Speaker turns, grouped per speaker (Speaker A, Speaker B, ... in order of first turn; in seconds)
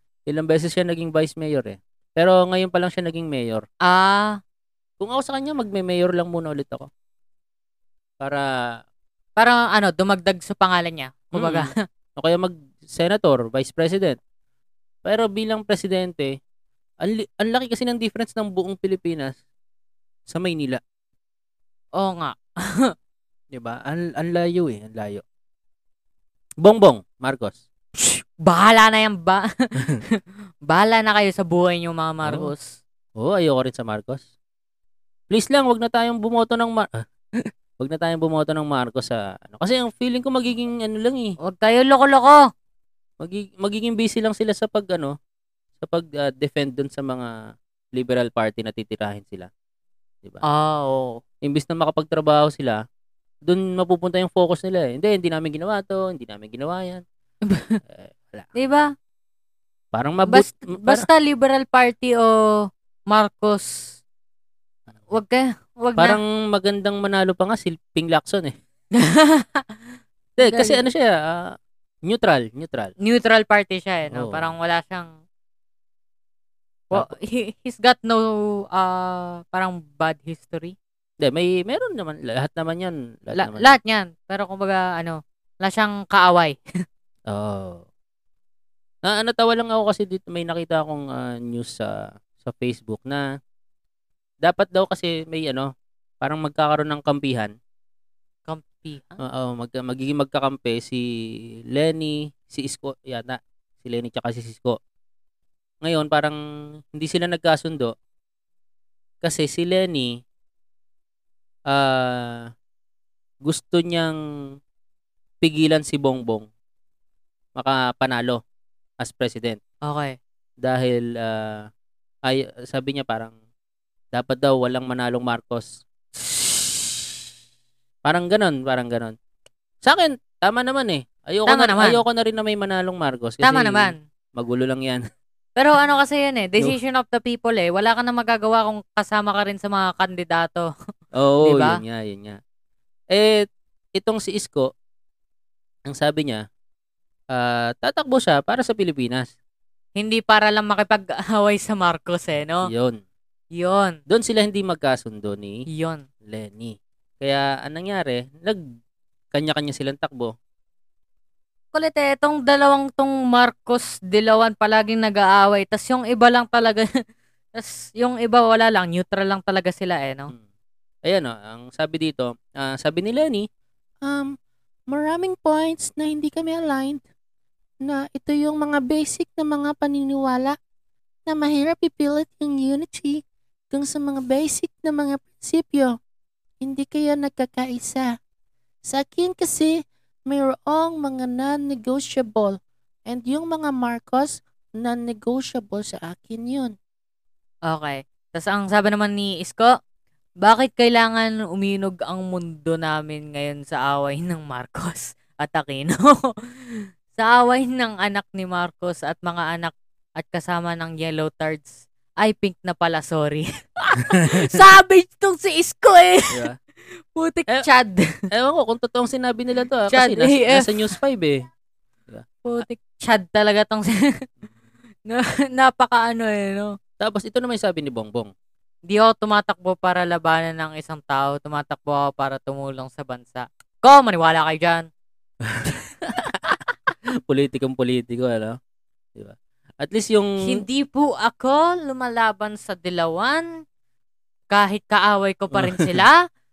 Speaker A: 0.3-3.6, 5.0-6.9, 8.2-8.5, 11.3-14.2, 15.0-16.4, 17.0-19.4, 20.3-20.8, 23.5-25.2, 26.6-27.6, 32.2-32.5, 33.2-34.2, 35.3-41.3, 43.2-45.1, 45.8-47.3, 47.9-49.5, 51.4-52.8, 53.5-57.0, 57.8-58.5, 59.9-61.1, 66.0-68.5, 70.4-72.9, 74.1-74.5, 81.2-83.7, 87.3-87.8, 89.0-93.3, 94.4-95.7, 96.2-97.5, 99.2-101.0, 101.7-104.8, 105.8-106.4, 106.9-107.9, 109.2-110.1, 111.7-112.5, 113.4-114.1, 115.4-116.5, 117.5-118.4, 119.0-119.6, 120.6-121.7, 122.2-123.3, 124.1-125.8, 128.0-129.2, 129.8-135.0, 141.2-142.4, 143.1-144.7, 145.8-146.4, 147.3-149.3, 152.6-153.0, 154.1-155.6, 156.2-158.6, 159.3-160.3, 171.0-173.5, 174.0-174.3, 174.9-177.0, 177.8-180.6, 181.3-185.9, 186.6-188.1, 188.8-196.8, 218.3-221.4, 222.1-222.6, 227.0-228.3, 235.4-236.6, 237.3-238.6, 239.1-240.6, 245.5-245.9
Speaker B: 3.9-4.4, 9.4-11.8, 21.9-22.9, 28.4-29.4, 30.7-32.8, 41.4-42.4, 50.4-51.2, 57.5-57.8, 58.5-58.9, 60.3-64.0, 65.1-66.2, 69.0-69.7, 70.4-70.8, 73.0-75.1, 76.9-80.8, 83.3-86.6, 98.5-99.2, 119.8-120.2, 126.3-126.7, 131.5-132.0, 133.4-134.0, 135.6-140.7, 141.4-141.8, 150.0-152.7, 153.5-154.0, 155.7-156.0, 161.7-166.8, 167.5-170.3, 197.7-199.7, 200.4-206.1, 207.2-216.5, 217.1-218.3, 219.9-220.9, 222.4-224.1, 225.1-226.8, 228.9-234.9, 240.4-243.5, 244.5-246.2